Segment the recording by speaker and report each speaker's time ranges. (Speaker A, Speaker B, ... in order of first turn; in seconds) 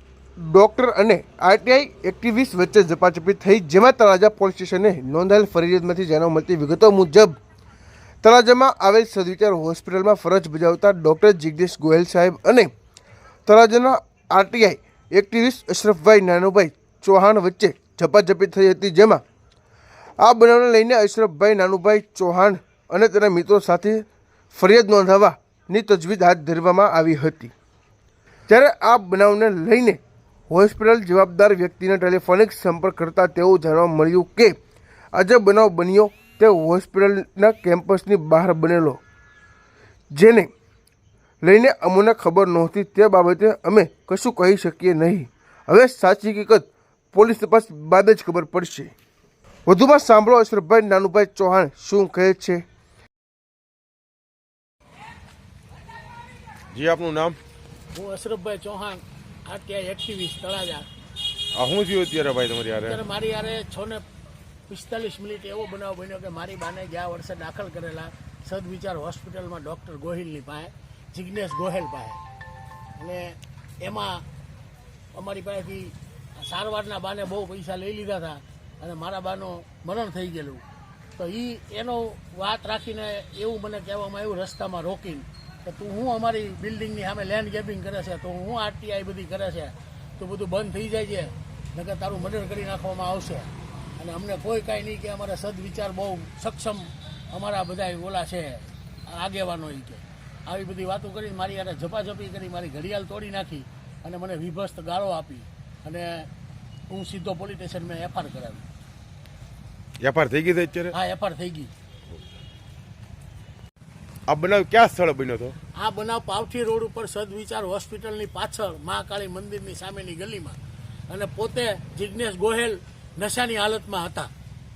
Speaker A: 0.4-7.4, 8.2-12.7, 13.5-19.2, 20.2-27.5, 28.5-34.6, 35.1-39.0, 40.1-40.5, 41.4-48.9, 49.7-52.6
Speaker B: 56.7-57.4, 61.5-63.0, 110.0-110.9, 114.3-115.5
Speaker C: 57.9-60.9, 62.8-64.0, 64.7-72.2, 73.0-74.2, 75.1-106.3, 106.9-108.6, 110.9-111.7, 115.7-124.3